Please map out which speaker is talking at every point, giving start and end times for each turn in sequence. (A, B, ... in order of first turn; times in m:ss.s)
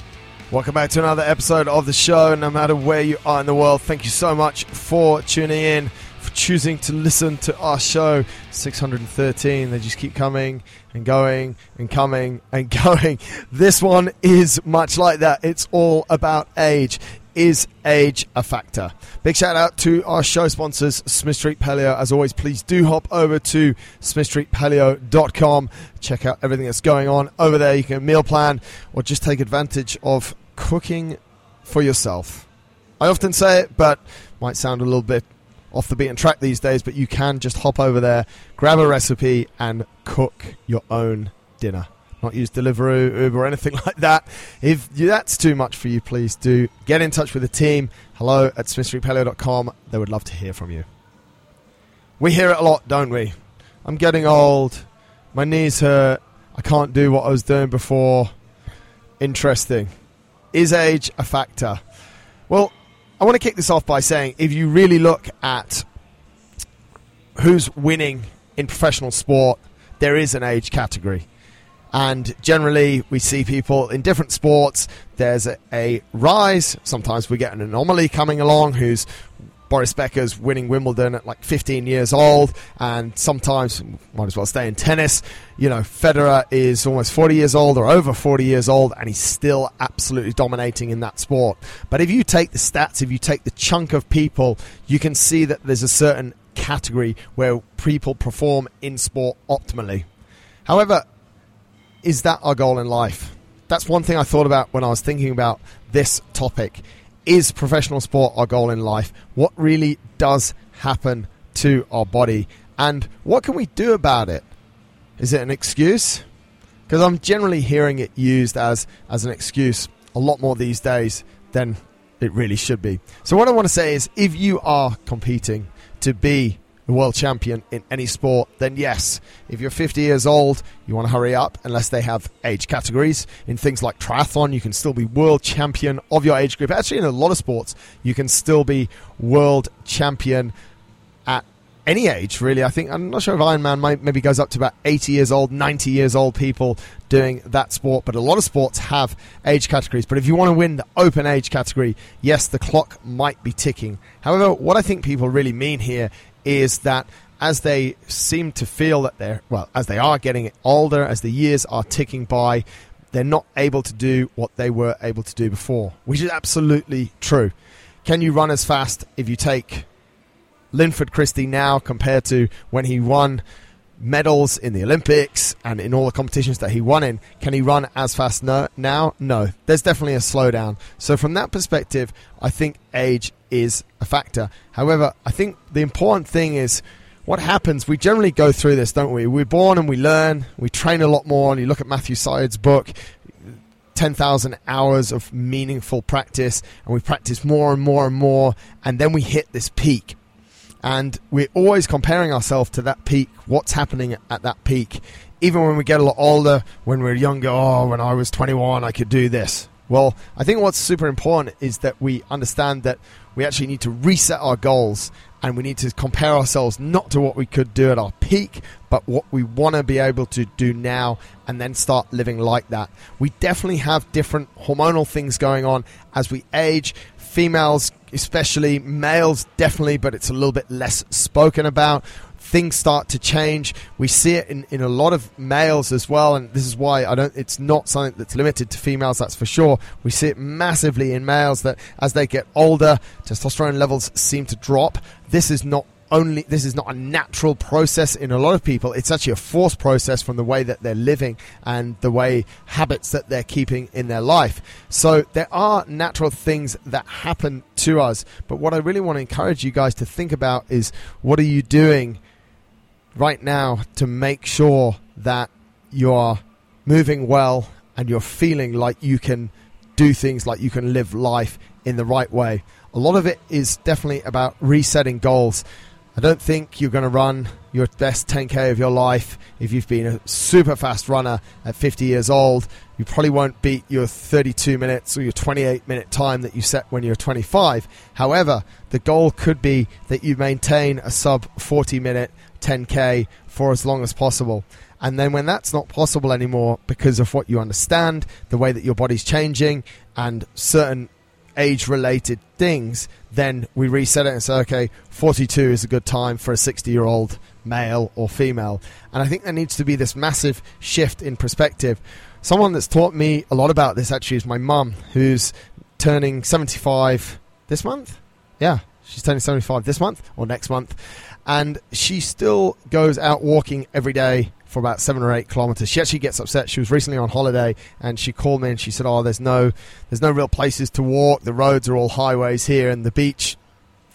0:00.5-0:32.5 A
0:33.0-0:50.9 A
0:52.2-0:58.3 A
0:59.2-0:59.9 A
1:00.5-1:01.8 A
1:02.5-1:05.8 A
1:07.4-1:11.2 A
1:11.9-1:19.1 A
1:19.7-1:40.1 A
1:40.7-1:41.0 A
1:42.0-1:54.5 A
1:55.2-1:56.2 A
1:56.9-2:20.5 A
2:21.3-2:47.5 A
2:48.0-2:49.9 A
2:50.7-2:53.4 A
2:54.0-3:12.9 A
3:14.0-3:20.2 A
3:20.8-4:22.2 A
4:23.2-4:35.6 A
4:36.2-5:33.6 A